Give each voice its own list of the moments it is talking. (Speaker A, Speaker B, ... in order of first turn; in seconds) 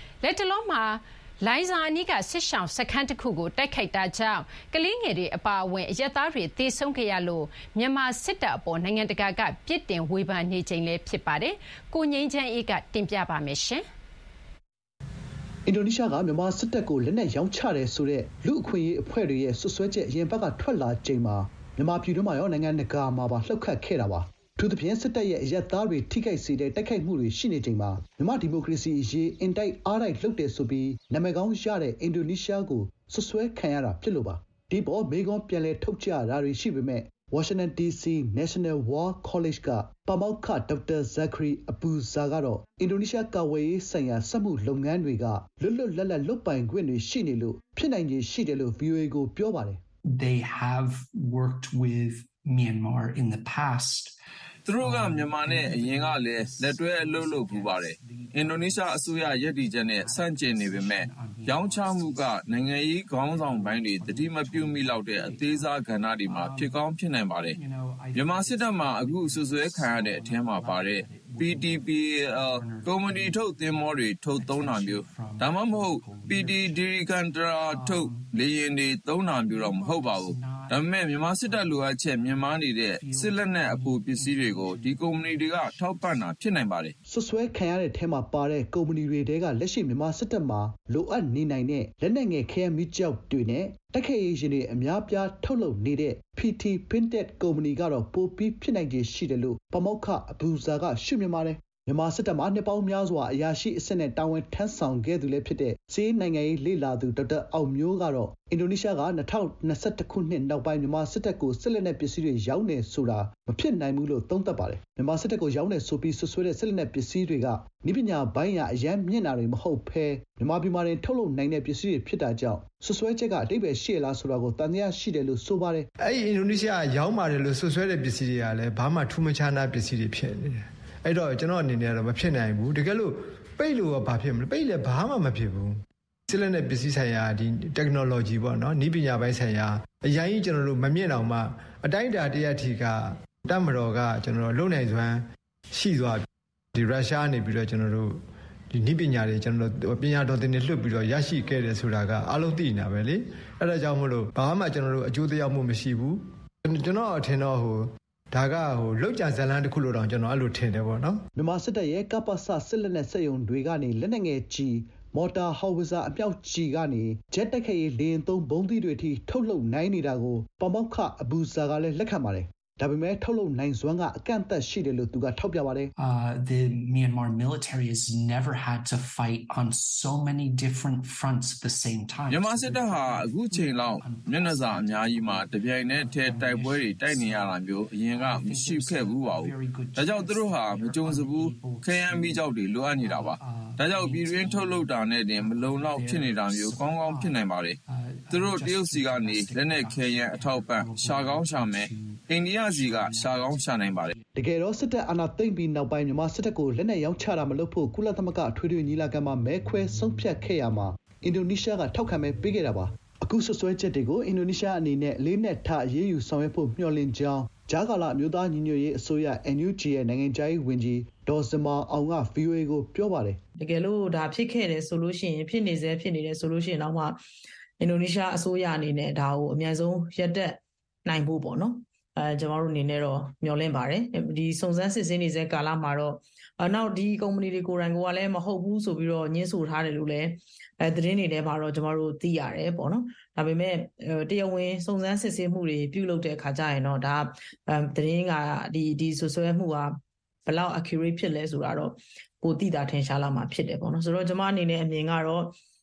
Speaker A: 0.2-13.8
Speaker B: 15.7-49.8, 87.1-125.9, 161.4-175.9, 204.4-223.4
Speaker C: 50.1-54.2, 54.8-66.9, 67.4-76.9, 77.7-78.3, 79.4-82.0, 83.0-85.8, 176.0-204.3
Speaker D: 54.7-67.6, 68.1-87.0, 182.3-197.8, 198.3-204.1
Speaker E: 126.0-135.7, 136.3-145.2, 145.7-146.2, 146.8-148.2, 148.7-161.2
Speaker F: 223.6-227.2, 227.8-249.9, 250.5-255.6